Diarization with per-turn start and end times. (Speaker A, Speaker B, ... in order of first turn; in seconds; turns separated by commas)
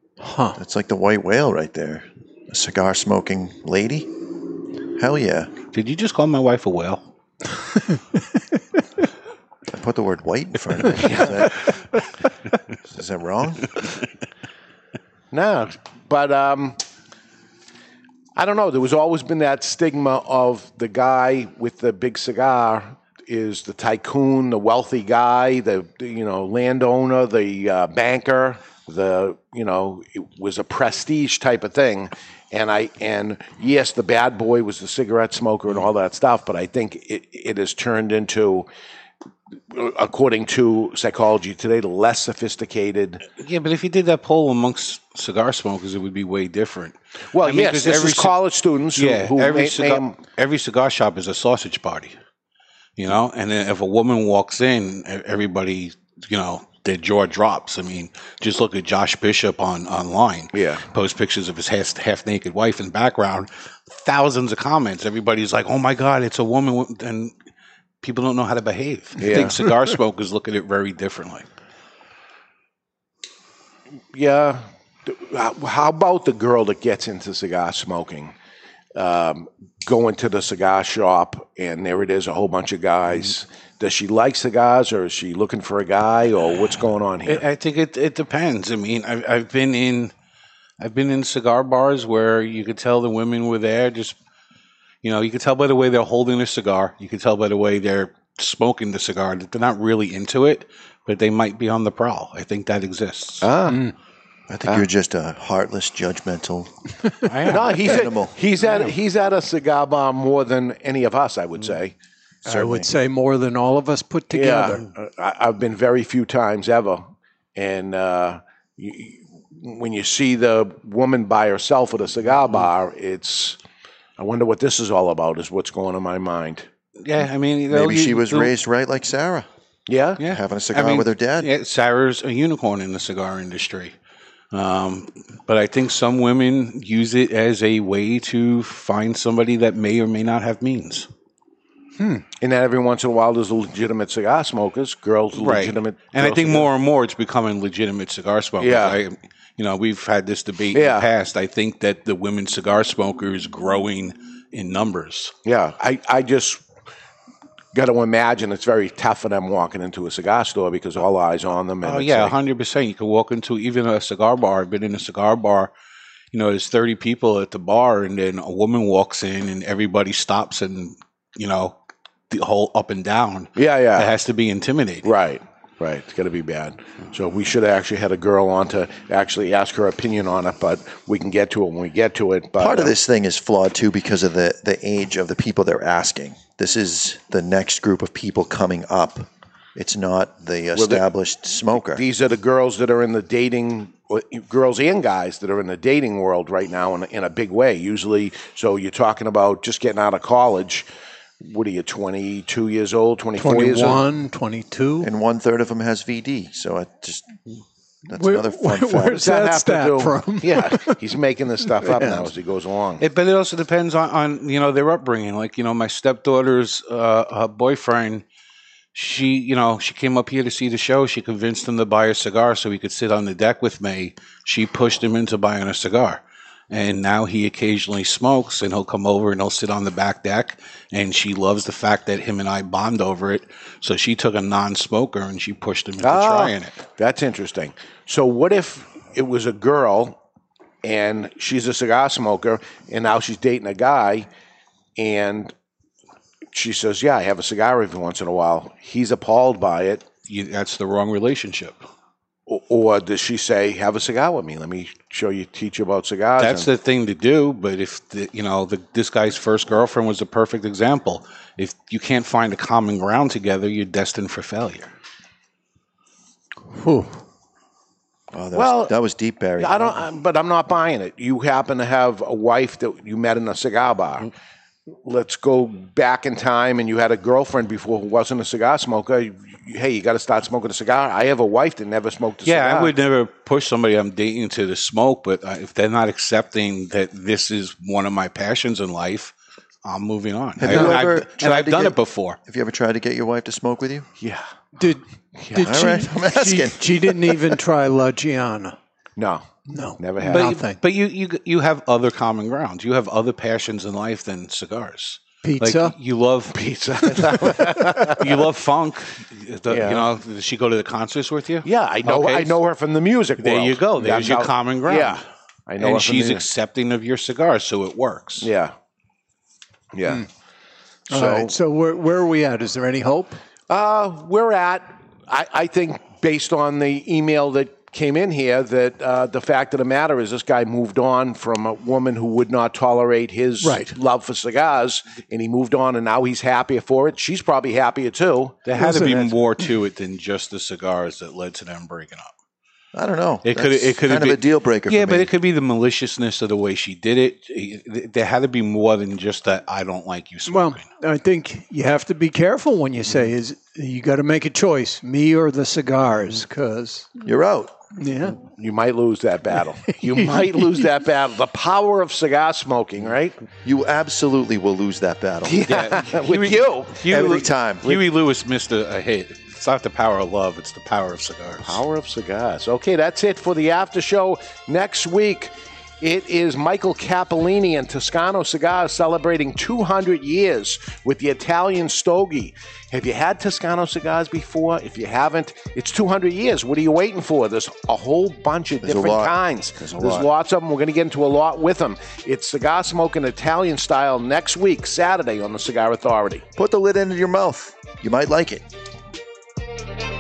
Speaker A: 0.2-0.6, Speaker B: 0.6-4.2, Speaker B: 4.9-5.5, Speaker C: 5.7-7.1, Speaker A: 7.8-8.2, Speaker B: 9.7-11.7, Speaker D: 11.0-11.4, Speaker B: 12.9-13.7, Speaker D: 15.3-16.8, Speaker D: 18.4-38.7, Speaker D: 39.7-43.2, Speaker C: 43.3-48.4, Speaker D: 47.3-50.2, Speaker C: 49.0-52.1, Speaker C: 53.0-67.3, Speaker D: 60.5-60.8, Speaker C: 68.0-71.5, Speaker D: 69.2-69.6, Speaker D: 74.1-78.3, Speaker D: 79.0-87.4, Speaker C: 87.3-90.1, Speaker C: 90.8-94.2, Speaker C: 95.0-103.5, Speaker D: 103.4-103.8, Speaker B: 104.5-106.7, Speaker C: 107.2-108.0, Speaker D: 107.5-111.9, Speaker B: 107.8-108.3, Speaker B: 112.5-112.9, Speaker A: 112.5-114.8, Speaker D: 114.3-123.6, Speaker D: 124.2-126.7, Speaker C: 127.0-128.5, Speaker B: 127.7-129.5, Speaker D: 129.9-130.2, Speaker C: 130.2-133.9, Speaker B: 130.2-131.5, Speaker C: 134.5-141.1, Speaker A: 142.0-142.2, Speaker D: 142.4-146.7, Speaker C: 145.3-155.3, Speaker D: 148.6-149.0, Speaker D: 150.7-151.1, Speaker D: 155.4-156.7, Speaker D: 157.7-162.3, Speaker C: 161.8-165.7, Speaker C: 166.3-171.8, Speaker C: 172.3-175.1, Speaker D: 173.6-174.1, Speaker D: 175.0-182.9, Speaker B: 182.6-192.0, Speaker D: 190.8-191.0, Speaker D: 191.9-200.9, Speaker D: 201.4-204.1, Speaker A: 203.4-205.1, Speaker B: 205.0-207.4, Speaker B: 208.1-209.3, Speaker A: 208.1-211.0, Speaker D: 209.1-213.0, Speaker C: 213.0-218.2, Speaker C: 218.9-236.7, Speaker D: 236.0-240.2, Speaker D: 240.8-244.3, Speaker D: 245.0-245.5, Speaker D: 246.5-250.1, Speaker C: 250.2-251.8, Speaker D: 252.5-256.7, Speaker C: 256.4-264.9, Speaker A: 266.7-267.2, Speaker B: 268.3-270.0, Speaker D: 268.5-268.9, Speaker D: 269.6-274.3, Speaker D: 275.0-282.9, Speaker C: 282.4-292.4, Speaker B: 290.6-294.1, Speaker A: 290.7-290.9, Speaker A: 294.8-298.8, Speaker D: 295.4-295.8, Speaker B: 295.6-297.5, Speaker D: 299.2-300.6, Speaker A: 299.7-300.8, Speaker C: 300.2-312.6, Speaker A: 305.4-305.9, Speaker D: 306.5-308.4, Speaker D: 309.7-310.1, Speaker D: 311.6-316.4, Speaker C: 313.4-315.2, Speaker C: 315.8-318.5, Speaker D: 318.4-318.7, Speaker D: 319.9-320.3, Speaker D: 321.1-321.5, Speaker A: 321.1-323.4, Speaker D: 323.7-338.6, Speaker A: 333.6-334.0, Speaker C: 338.6-342.3, Speaker A: 338.8-339.4, Speaker B: 342.9-345.3, Speaker C: 343.4-350.9, Speaker A: 350.5-357.2, Speaker B: 357.2-357.8, Speaker A: 357.9-358.4, Speaker D: 358.4-363.4, Speaker B: 363.6-365.7, Speaker D: 365.4-367.1, Speaker C: 365.7-371.8, Speaker B: 367.1-368.0, Speaker D: 371.6-396.4, Speaker B: 388.8-390.3, Speaker B: 396.6-398.6